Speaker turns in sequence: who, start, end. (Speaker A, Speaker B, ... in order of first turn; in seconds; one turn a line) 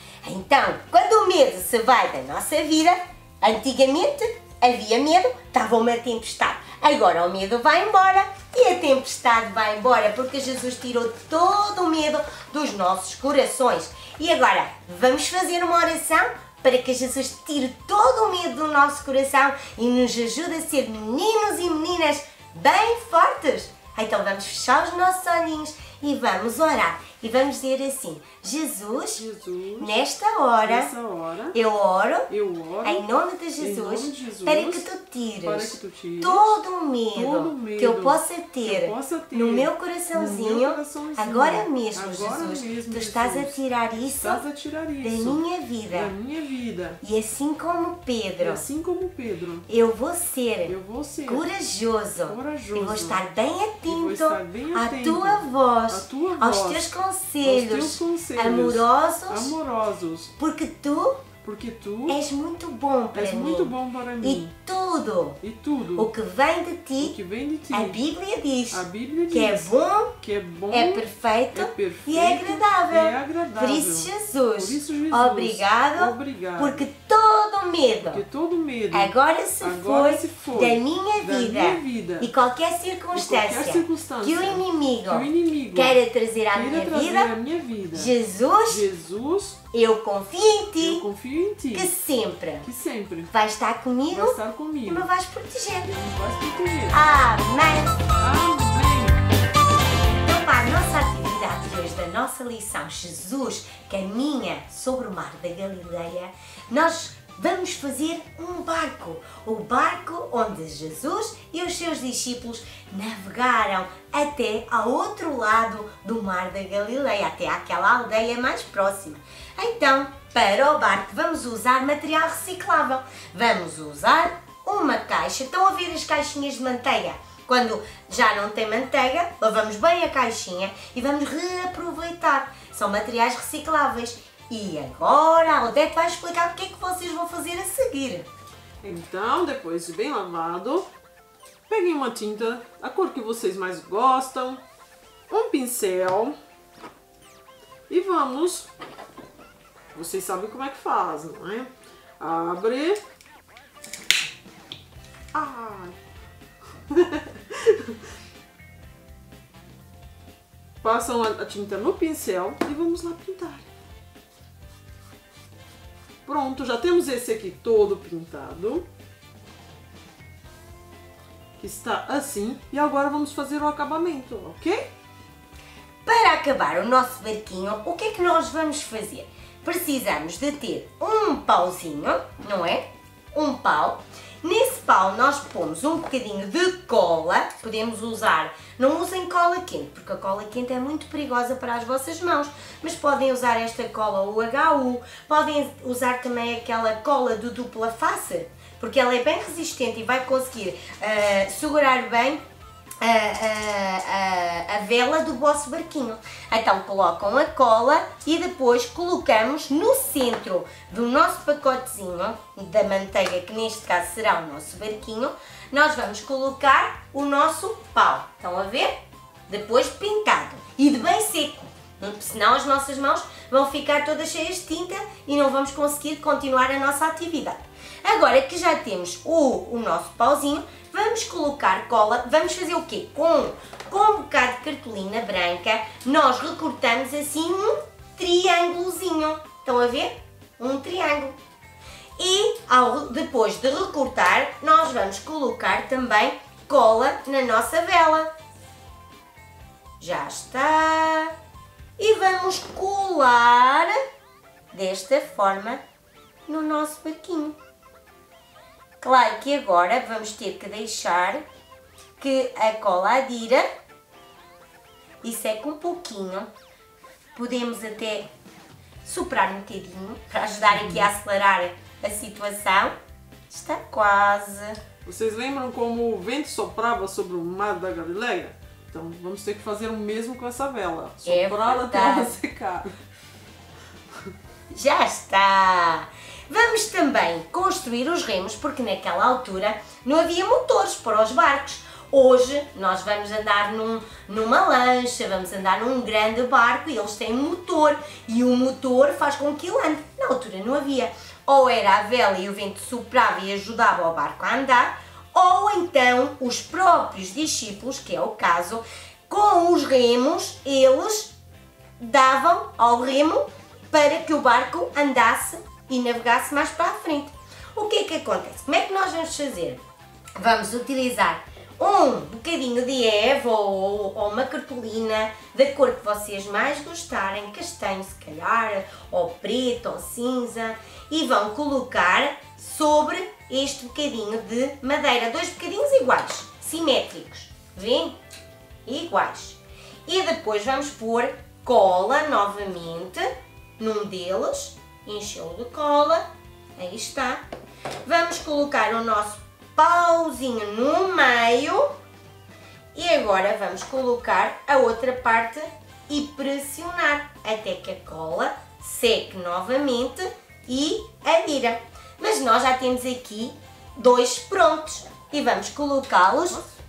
Speaker A: 0.2-29.2
Speaker B: 29.1-30.1
Speaker A: 29.8-30.9
Speaker B: 30.6-31.6
Speaker A: 31.5-32.3
Speaker B: 32.3-34.9
Speaker A: 32.8-44.4
Speaker B: 35.4-36.6
Speaker B: 37.1-43.6
Speaker B: 44.1-47.0
Speaker A: 45.0-46.1
Speaker A: 47.0-48.7
Speaker B: 48.4-49.7
Speaker A: 49.7-59.6
Speaker B: 50.7-51.5
Speaker B: 52.2-53.2
Speaker B: 53.9-60.3
Speaker A: 60.4-61.2
Speaker B: 61.4-62.2
Speaker A: 62.1-65.4
Speaker B: 63.1-64.5
Speaker B: 65.4-66.1
Speaker A: 66.0-67.2
Speaker B: 67.0-68.0
Speaker A: 67.7-70.2
Speaker B: 68.7-76.9
Speaker A: 70.7-78.2
Speaker B: 78.1-82.3
Speaker A: 78.9-87.3
Speaker B: 83.1-86.0
Speaker B: 86.5-88.1
Speaker A: 87.9-88.9
Speaker B: 88.7-89.6
Speaker A: 89.7-91.1
Speaker B: 90.8-91.9
Speaker A: 91.7-92.7
Speaker B: 92.6-93.3
Speaker A: 93.3-96.0
Speaker B: 94.1-95.1
Speaker B: 95.9-97.0
Speaker A: 96.9-97.9
Speaker B: 98.2-99.2
Speaker A: 100.2-138.3
Speaker B: 138.8-140.9
Speaker B: 141.7-144.6
Speaker B: 145.3-146.3
Speaker B: 147.9-148.7
Speaker B: 149.9-153.0
Speaker B: 155.3-156.0
Speaker B: 156.9-157.9
Speaker B: 160.8-163.7
Speaker B: 166.3-168.9
Speaker B: 171.6-174.9
Speaker A: 176.1-202.4
Speaker A: 203.0-218.9
Speaker A: 219.5-241.4
Speaker A: 242.2-248.3
Speaker A: 250.0-251.3
Speaker A: 252.0-253.9
Speaker A: 254.7-255.8
Speaker A: 256.5-257.6
Speaker A: 259.0-261.4
Speaker A: 262.2-263.7
Speaker A: 265.2-266.5
Speaker A: 267.4-268.3
Speaker A: 269.0-272.9
Speaker A: 273.5-274.8
Speaker B: 275.1-282.9
Speaker A: 281.2-282.3
Speaker A: 284.7-311.3
Speaker A: 312.0-319.8
Speaker A: 320.4-338.2
Speaker A: 338.9-343.3
Speaker A: 343.8-346.2
Speaker A: 346.8-347.4
Speaker A: 348.0-351.9
Speaker A: 352.9-366.7